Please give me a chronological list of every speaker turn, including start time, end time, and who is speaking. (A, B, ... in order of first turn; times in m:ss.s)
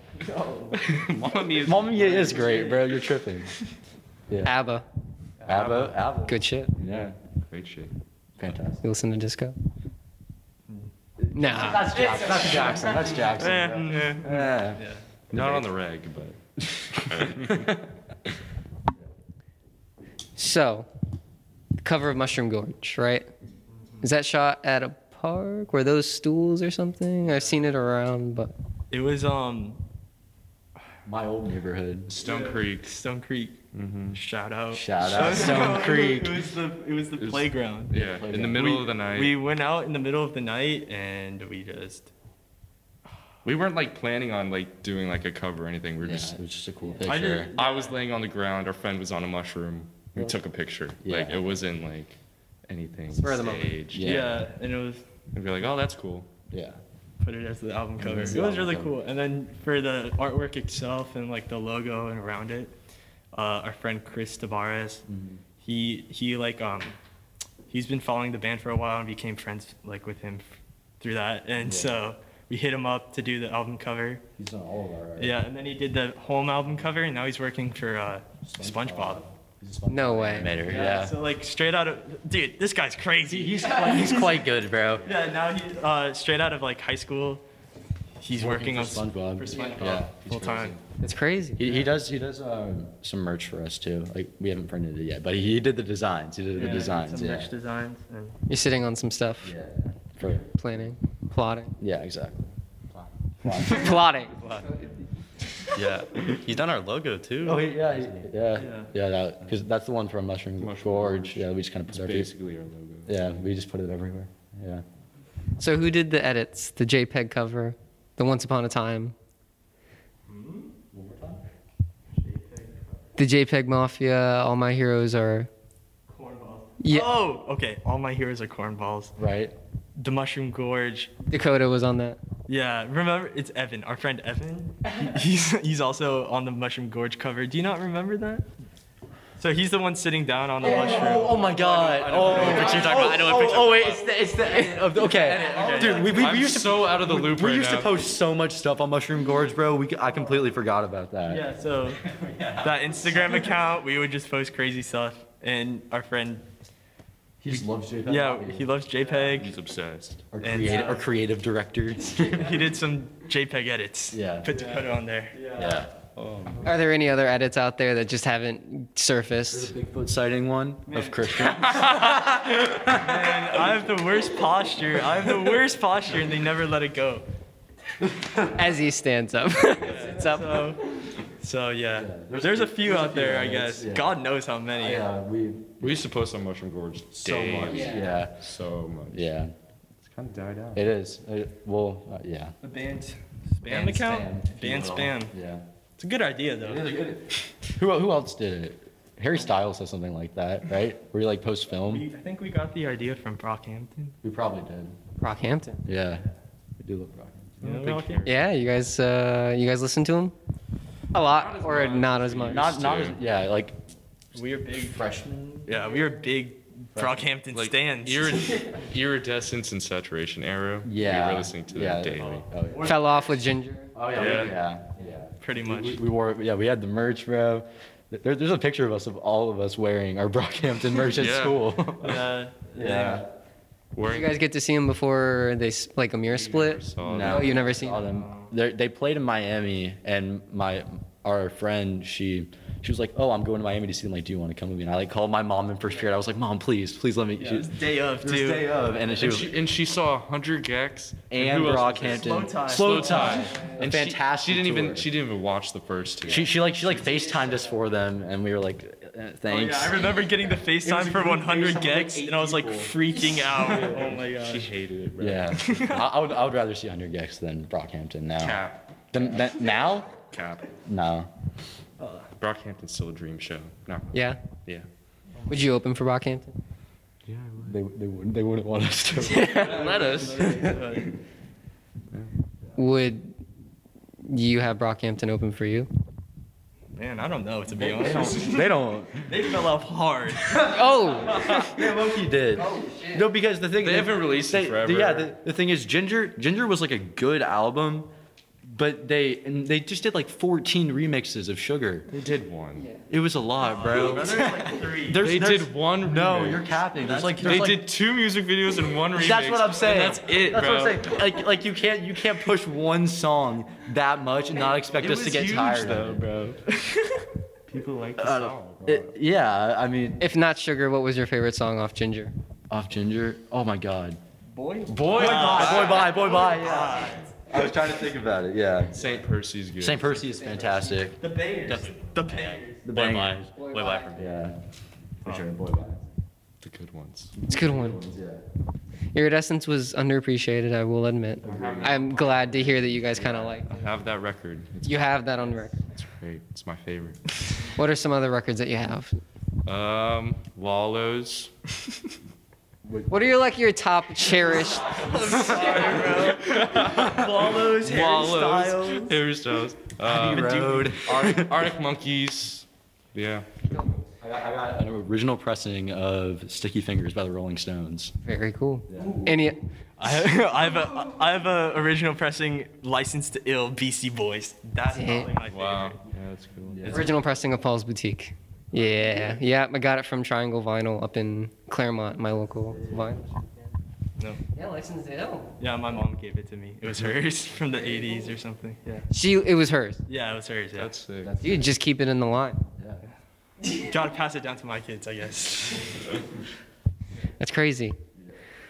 0:00.2-0:01.0 A
0:00.7-0:02.4 B
0:01.6-0:03.5 C
0:01.9-0:03.1 A
0:04.3-0:04.5 C
0:04.4-0:04.8 D
0:05.5-0:07.2 C
0:05.5-0:06.0 B
0:06.3-0:06.8 D
0:07.4-0:08.0 B
0:08.4-0:08.8 C
0:08.8-0:09.6 D
0:11.2-0:15.7 C
0:11.3-0:12.5 D
0:12.1-0:15.0 A
0:15.3-0:17.8 B
0:17.2-0:17.6 C
0:20.4-0:20.9 D
0:21.8-0:23.3 D
0:24.0-0:28.5 D
0:28.9-0:29.8 A
0:31.0-0:32.2 C
0:32.1-0:32.9 B
0:32.2-0:33.6 A
0:33.7-0:34.2 B
0:34.1-0:37.9 A
0:34.7-0:36.5 C
0:37.2-0:39.4 B
0:37.9-0:38.9 C
0:38.6-0:42.1 A
0:43.4-0:46.3 B
0:46.0-0:47.5 C
0:47.0-0:48.0 A
0:47.5-0:54.2 B
0:51.0-0:51.4 C
0:53.1-0:53.8 D
0:53.9-0:54.5 C
0:54.0-0:55.0 A
0:55.3-0:56.3 B
0:56.5-0:56.8 C
0:57.2-1:02.8 A
0:58.0-0:59.0 C
1:03.3-1:05.0 A
1:05.1-1:05.4 C
1:05.6-1:07.0 A
1:07.7-1:14.2 A
1:11.6-1:12.0 C
1:14.4-1:15.4 C
1:15.2-1:19.3 A
1:18.5-1:21.2 C
1:19.9-1:20.5 D
1:20.6-1:24.5 A
1:23.2-1:25.1 C
1:25.0-1:27.4 A
1:28.2-1:30.8 A
1:28.3-1:30.8 C
1:31.0-1:31.6 D
1:31.6-1:37.5 C
1:31.6-1:31.9 A
1:36.5-1:38.4 A
1:38.5-1:39.5 D
1:39.4-1:40.5 C
1:40.5-1:41.8 D
1:41.8-1:42.5 C
1:43.4-1:44.0 C
1:43.5-1:44.9 D
1:44.4-1:44.7 E
1:45.7-1:48.3 E
1:47.4-1:52.3 C
1:48.6-1:48.9 A
1:50.6-1:53.2 B
1:53.1-1:54.8 C
1:55.6-1:59.2 D
2:00.3-2:00.7 A
2:00.9-2:01.4 C
2:02.2-2:03.1 A
2:03.2-2:05.5 D
2:06.1-2:09.2 A
2:06.8-2:07.1 D
2:09.2-2:09.5 C
2:10.0-2:11.1 A
2:11.3-2:12.2 D
2:12.5-2:18.4 A
2:19.4-2:24.0 A
2:20.6-2:31.5 C
2:21.8-2:26.2 E
2:25.0-2:26.2 A
2:26.0-2:28.0 B
2:31.3-2:36.5 A
2:32.1-2:32.7 E
2:37.4-2:38.7 C
2:38.0-2:39.6 A
2:39.3-2:40.3 B
2:40.3-2:42.8 C
2:40.4-2:41.1 A
2:42.2-2:45.9 A
2:44.1-2:44.8 C
2:45.4-2:45.9 C
2:46.2-2:46.7 B
2:46.6-2:49.7 D
2:49.5-2:53.8 C
2:50.9-2:52.3 A
2:51.6-2:52.3 B
2:52.8-2:57.2 A
2:58.1-2:58.5 C
2:58.5-3:01.1 D
2:59.8-3:05.1 A
3:01.9-3:04.2 C
3:04.8-3:06.0 C
3:05.8-3:09.3 B
3:07.2-3:08.4 C
3:07.7-3:08.2 D
3:09.1-3:09.5 C
3:10.0-3:10.9 B
3:10.7-3:12.6 C
3:12.6-3:15.3 A
3:13.6-3:15.6 C
3:16.0-3:17.0 A
3:16.6-3:22.1 C
3:21.8-3:24.2 A
3:24.2-3:25.0 C
3:25.2-3:25.8 D
3:25.8-3:26.2 C
3:26.8-3:27.9 C
3:27.6-3:28.3 A
3:27.6-3:28.4 B
3:28.2-3:30.4 D
3:31.1-3:32.6 D
3:31.2-3:33.2 B
3:32.5-3:33.8 C
3:34.3-3:38.6 A
3:34.8-3:35.8 C
3:37.0-3:37.2 C
3:37.5-3:42.5 B
3:40.8-3:43.0 C
3:42.6-3:43.5 A
3:42.8-3:43.9 D
3:44.0-3:52.2 C
3:44.1-3:44.6 B
3:45.4-3:46.0 A
3:51.0-3:51.9 B
3:52.0-3:53.3 A
3:52.8-3:53.3 C
3:53.9-3:54.4 B
3:54.0-3:58.0 D
3:56.3-3:57.6 B
3:57.0-4:09.6 C
3:57.9-3:58.5 A
4:07.4-4:08.8 A
4:09.1-4:16.5 B
4:11.3-4:15.1 C
4:12.0-4:13.5 A
4:13.5-4:13.8 D
4:16.2-4:23.0 C
4:17.0-4:17.8 D
4:19.5-4:24.7 A
4:23.6-4:26.1 B
4:25.2-4:28.6 C
4:25.6-4:26.1 A
4:28.4-4:28.8 B
4:29.1-4:30.2 C
4:30.2-4:30.7 B
4:30.8-4:31.3 C
4:32.0-4:32.3 A
4:32.4-4:34.9 B
4:34.1-4:34.4 D
4:35.5-4:36.6 D
4:37.3-4:37.8 B
4:37.6-4:39.7 C
4:39.2-4:41.2 A
4:39.3-4:39.7 D
4:39.4-4:40.6 B
4:40.4-4:40.9 C
4:42.8-4:43.4 D
4:44.2-4:45.9 D
4:47.0-4:50.8 A
4:47.7-4:49.5 C
4:50.6-4:51.7 D
4:51.4-4:51.8 B
4:51.4-4:58.1 C
4:52.5-4:53.3 D
4:53.8-4:55.3 B
4:58.6-5:02.1 C
5:02.1-5:02.9 B
5:03.1-5:07.9 C
5:03.7-5:05.2 E
5:03.8-5:05.2 A
5:05.1-5:06.7 B
5:07.0-5:07.7 A
5:07.4-5:11.2 B
5:09.2-5:16.5 C
5:15.0-5:16.6 B
5:16.7-5:17.3 A
5:17.7-5:19.1 B
5:18.2-5:20.2 C
5:20.2-5:22.3 D
5:22.7-5:24.2 C
5:24.5-5:27.3 A
5:24.9-5:29.2 C
5:25.1-5:25.9 B
5:28.9-5:30.2 B
5:29.8-5:31.2 C
5:30.3-5:31.1 D
5:31.2-5:32.9 A
5:31.6-5:34.4 E
5:32.8-5:33.5 C
5:33.6-5:34.1 D
5:34.2-5:34.6 C
5:35.2-5:36.0 C
5:36.6-5:37.4 B
5:37.4-5:38.4 C
5:37.5-5:38.0 D
5:39.1-5:43.7 D
5:41.4-5:42.0 C
5:41.4-5:45.2 B
5:43.2-5:43.6 C
5:44.8-5:45.8 D
5:45.8-5:47.2 B
5:47.6-5:49.2 D
5:49.7-5:51.5 B
5:52.8-5:53.2 C
5:53.1-5:55.9 D
5:54.8-5:59.2 A
5:55.2-6:03.5 B
5:55.7-5:56.0 C
6:00.0-6:01.7 C
6:00.3-6:00.8 A
6:04.2-6:08.2 C
6:08.2-6:09.6 D
6:08.9-6:09.3 C
6:10.0-6:16.0 A
6:14.9-6:15.3 D
6:15.5-6:17.1 B
6:16.7-6:17.1 C
6:16.9-6:23.3 D
6:18.8-6:19.3 A
6:22.7-6:23.3 C
6:24.5-6:25.5 D
6:25.6-6:29.1 A
6:29.1-6:30.0 D
6:30.1-6:30.9 A
6:30.8-6:31.4 B
6:31.2-6:31.7 C
6:31.4-6:32.6 D
6:33.7-6:36.1 A
6:37.4-6:38.0 D